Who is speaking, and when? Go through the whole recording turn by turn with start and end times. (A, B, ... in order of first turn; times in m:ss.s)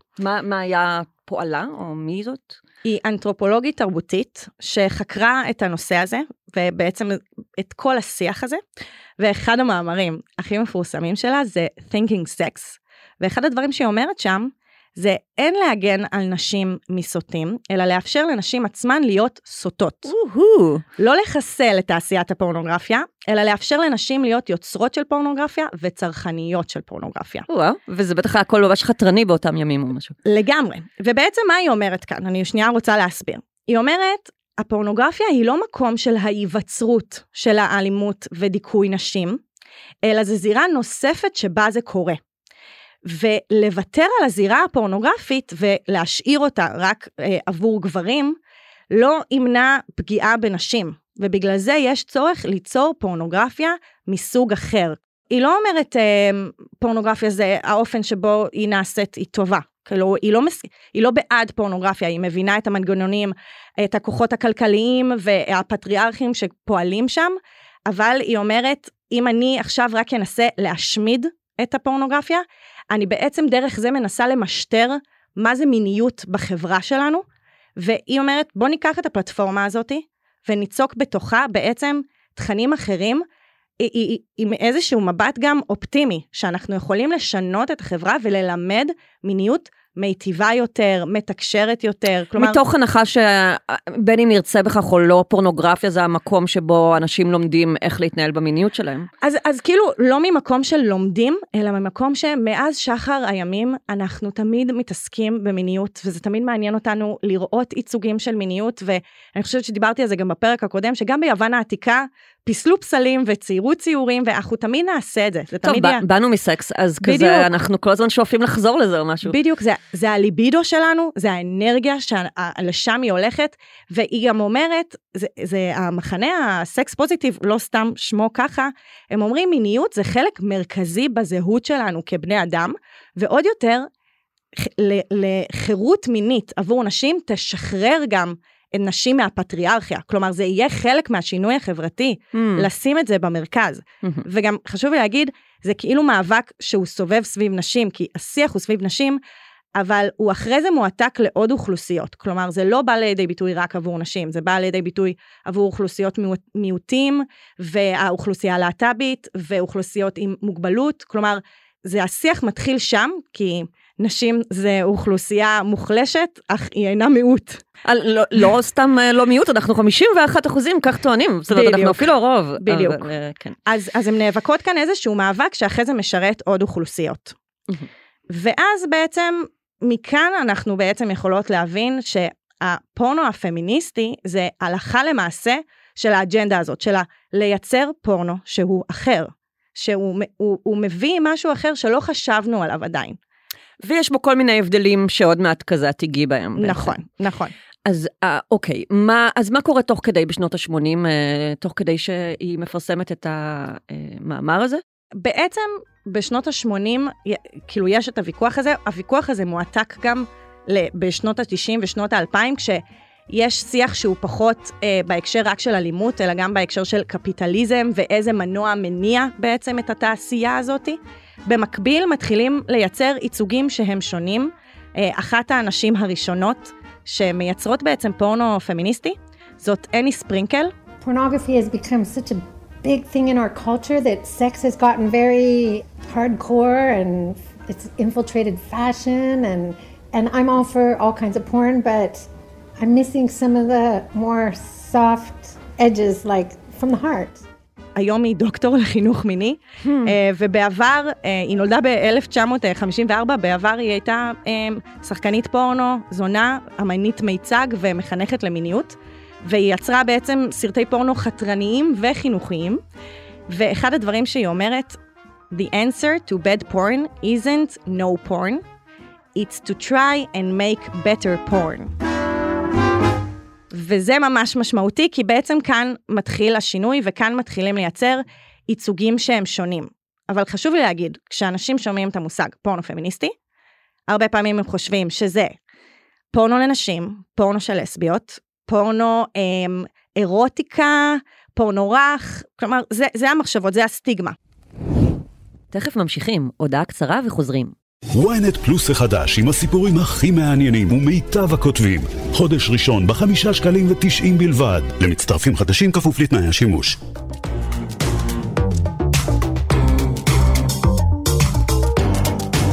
0:00.2-0:02.6 A
0:02.8-0:08.6 B
0:09.2-0:20.1 B
0:20.1-0:20.8 A
0:21.0-0:27.5 B
0:27.5-0:30.2 A
0:30.3-0:39.4 B
0:40.0-0:42.2 B
0:43.0-0:48.4 B
0:48.9-1:17.2 B
1:17.8-1:23.2 B
1:23.8-1:32.6 B
1:32.4-1:39.1 A
1:39.2-1:56.0 B
1:55.6-1:59.4 A
1:57.0-1:57.5 B
1:59.3-2:13.9 B
2:14.6-2:29.2 B
2:22.3-2:22.7 A
2:29.8-2:47.6 B
2:47.8-2:53.6 A
2:51.5-2:53.1 B
2:53.7-2:57.4 B
2:58.3-3:13.2 B
3:13.8-3:16.9 A
3:16.6-3:17.5 B
3:17.9-3:24.8 A
3:25.2-3:50.7 B
3:51.0-4:02.3 C
4:02.8-4:07.4 C
4:08.0-4:22.8 B
4:09.8-4:10.2 A
4:23.5-4:25.0 B
4:25.5-4:28.6 B
4:29.4-4:31.9 B
4:33.7-4:43.3 B
4:44.1-4:45.6 B
4:46.3-4:54.4 B
4:55.7-4:57.7 A
4:58.1-5:07.0 D